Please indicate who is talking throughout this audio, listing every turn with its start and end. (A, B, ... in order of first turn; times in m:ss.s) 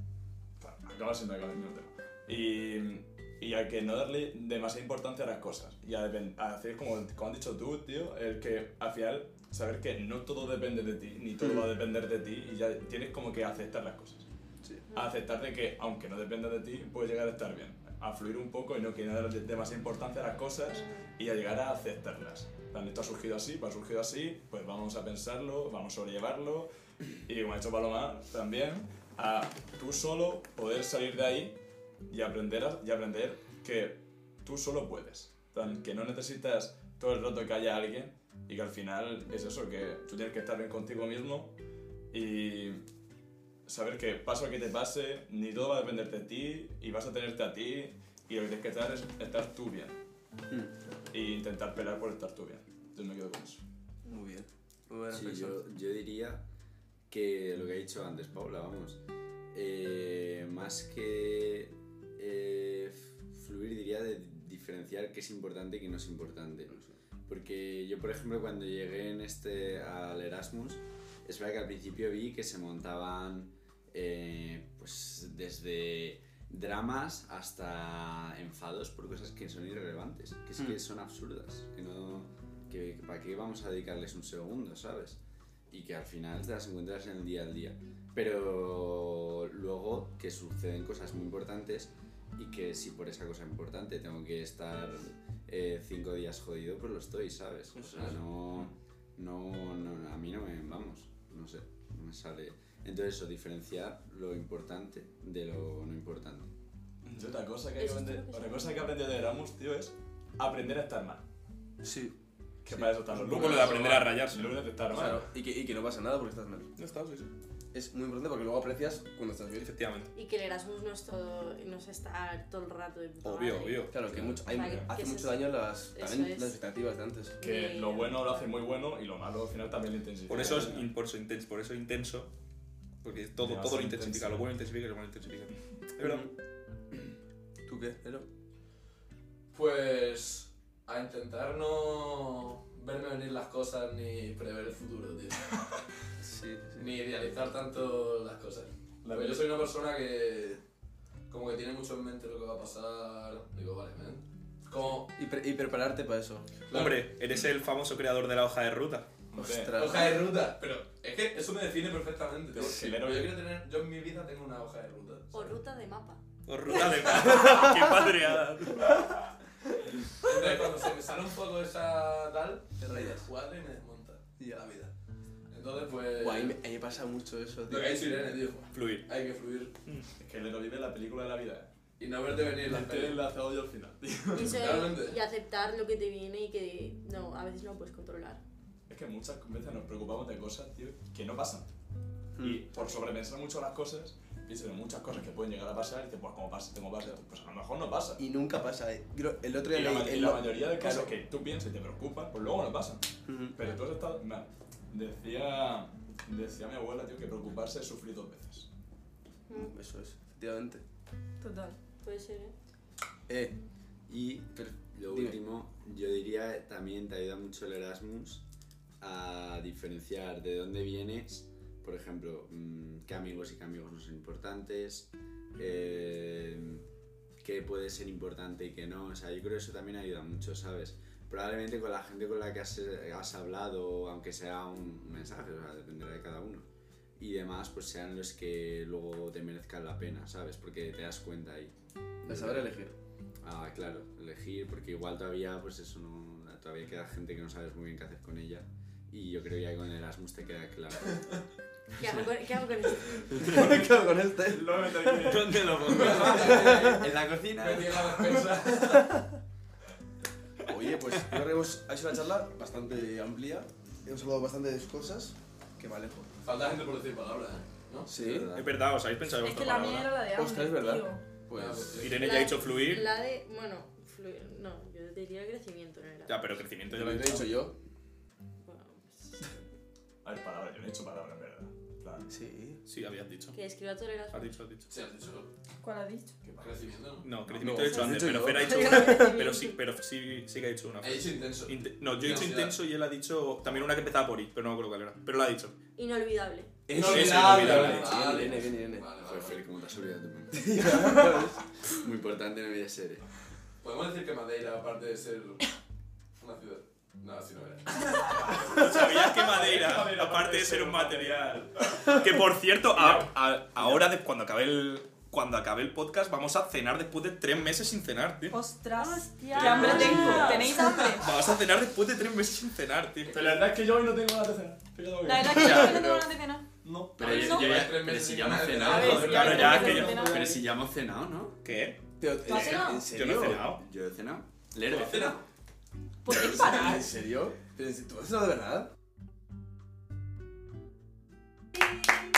0:00.6-0:14.2 A
0:14.9-0:26.7 A
0:27.2-0:31.6 A
0:32.1-0:41.6 A
0:42.1-0:42.8 A
0:43.6-0:50.0 A
0:51.1-0:53.6 A
0:54.0-0:55.6 B
0:55.1-0:56.4 C
0:57.1-0:59.0 C
0:59.5-1:25.2 C
1:25.7-1:46.5 C
1:37.8-1:38.2 B
1:47.0-1:51.2 A
1:47.8-1:48.9 D
1:51.8-1:52.1 B
1:52.6-1:55.3 A
1:52.7-1:53.8 B
1:53.3-1:54.6 E
1:54.9-1:56.7 B
1:56.8-1:57.3 E
1:57.7-1:59.7 B
1:59.6-2:00.1 E
2:00.1-2:06.6 D
2:03.2-2:04.0 E
2:03.9-2:07.4 B
2:04.1-2:04.9 A
2:07.4-2:08.6 D
2:07.4-2:10.9 A
2:10.3-2:12.3 E
2:13.0-2:16.3 E
2:13.4-2:14.5 A
2:16.0-2:16.3 B
2:17.6-2:18.3 B
2:19.5-2:25.5 F
2:26.2-2:26.9 B
2:26.8-2:30.6 F
2:29.0-2:29.5 A
2:31.3-2:35.1 F
2:35.1-2:36.6 B
2:36.7-2:37.0 F
2:36.7-2:39.2 E
2:39.3-2:39.9 A
2:39.4-2:40.1 B
2:39.7-2:45.6 F
2:42.5-2:43.4 A
2:45.3-2:46.2 D
2:46.4-2:49.1 E
2:46.8-2:47.5 F
2:50.2-2:54.3 F
2:52.8-2:53.3 B
2:54.4-2:54.9 B
2:55.5-2:56.6 F
2:56.2-2:58.4 B
2:57.6-2:59.7 F
2:58.7-2:59.1 E
3:00.2-3:01.7 A
3:02.0-3:03.2 F
3:02.6-3:04.7 A
3:04.3-3:08.4 D
3:04.4-3:05.2 F
3:08.9-3:11.7 A
3:12.4-3:12.6 B
3:12.4-3:18.2 A
3:12.7-3:13.1 D
3:18.2-3:21.1 B
3:19.7-3:28.7 A
3:23.3-3:23.6 B
3:29.5-3:30.8 B
3:31.4-3:31.8 G
3:32.0-3:32.5 D
3:33.3-3:33.6 B
3:34.1-3:38.4 C
3:34.6-3:35.4 B
3:39.0-3:46.8 C
3:47.4-3:56.7 C
3:57.2-4:01.7 C
4:02.2-4:02.7 C
4:02.2-4:02.9 B
4:03.4-4:11.2 C
4:12.0-4:13.6 D
4:13.3-4:15.3 B
4:14.4-4:15.8 A
4:15.2-4:18.2 C
4:15.8-4:19.3 F
4:16.2-4:17.0 B
4:20.6-4:26.3 B
4:26.4-4:28.1 F
4:28.1-4:28.5 B
4:28.1-4:28.8 C
4:28.6-4:30.2 E
4:29.4-4:31.2 G
4:30.3-4:32.2 B
4:31.5-4:32.6 F
4:32.0-4:33.1 E
4:32.2-4:36.4 D
4:36.3-4:37.6 E
4:36.9-4:37.7 B
4:38.6-4:39.6 D
4:40.2-4:42.3 A
4:42.3-4:42.8 B
4:42.8-4:43.6 E
4:43.5-4:44.6 D
4:44.3-4:44.9 E
4:44.9-4:45.5 F
4:45.8-4:46.3 G
4:46.4-4:47.3 F
4:47.2-4:55.8 E
4:47.5-4:49.4 B
4:48.7-4:49.4 D
4:48.9-4:49.3 G
4:51.0-4:52.8 F
4:56.0-4:56.7 D
4:56.9-4:59.0 B
4:56.9-4:59.6 F
4:57.0-4:58.1 E
4:57.2-4:57.9 A
4:59.2-5:01.3 C
5:00.5-5:01.6 B
5:01.8-5:03.3 C
5:03.8-5:05.7 F
5:06.4-5:08.8 F
5:08.6-5:18.6 E
5:09.4-5:14.0 A
5:18.5-5:21.3 G
5:18.9-5:20.9 D
5:19.6-5:20.7 A
5:19.6-5:23.5 E
5:23.3-5:23.7 F
5:23.3-5:26.0 A
5:25.2-5:26.6 G
5:25.5-5:26.3 C
5:26.8-5:30.5 F
5:27.2-5:31.6 C
5:27.2-5:27.8 G
5:28.8-5:30.6 G
5:29.1-5:30.4 E
5:31.6-5:33.8 E
5:32.2-5:33.8 B
5:32.4-5:33.1 G
5:33.4-5:35.4 C
5:34.9-5:35.4 F
5:36.2-5:37.1 G
5:36.6-5:38.9 B